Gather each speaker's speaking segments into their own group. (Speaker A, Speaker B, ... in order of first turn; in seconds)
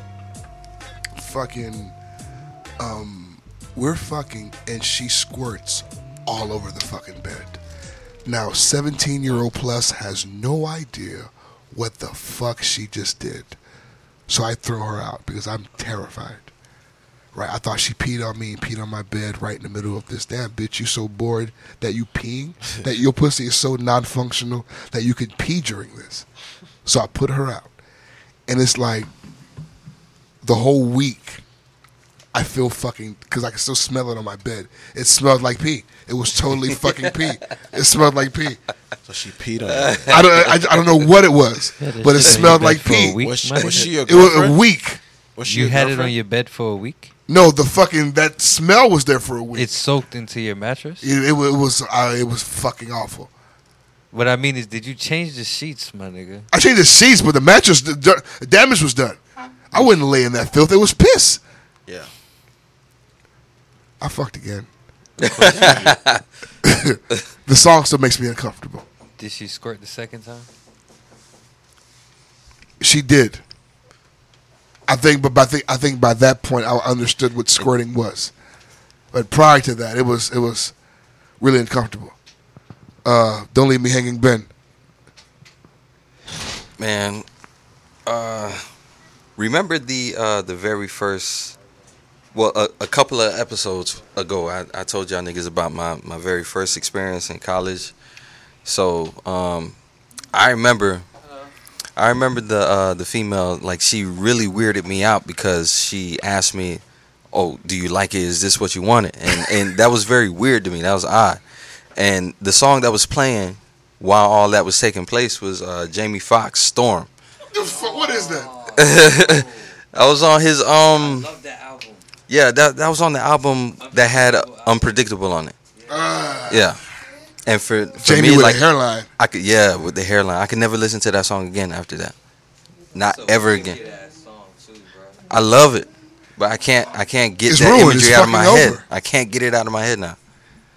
Speaker A: 1.1-1.9, 2.8-7.6, 8.2-13.6, 14.3-16.5, 17.3-26.2, 26.8-27.7, 28.5-29.1, 30.4-31.4, 32.3-38.6, 40.1-45.0, 47.3-49.7, 51.0-53.3, 56.5-59.2, 59.7-61.4, 64.0-64.7, 66.6-68.8, 72.8-73.4, 74.9-78.3, 79.1-80.7, 81.4-82.1, 83.0-84.5, 117.5-118.5, 125.9-126.7, 128.0-129.1, 137.5-138.8
Speaker B: 39.0-40.2, 42.2-42.7, 43.2-44.6, 45.4-46.1, 65.2-66.0
Speaker C: 41.8-43.9, 45.5-47.1, 49.5-51.1, 54.1-56.5, 69.2-70.5, 117.6-119.6, 120.9-122.1, 123.8-124.9, 133.0-135.2
Speaker D: 65.2-66.2, 86.8-87.2, 88.0-88.6, 89.4-91.5, 92.3-97.9, 98.6-99.8, 100.3-101.0, 102.0-111.4, 112.0-117.1, 118.8-121.3, 122.3-125.5, 126.5-126.8, 127.5-128.6, 129.2-132.1, 132.9-133.8, 135.3-140.2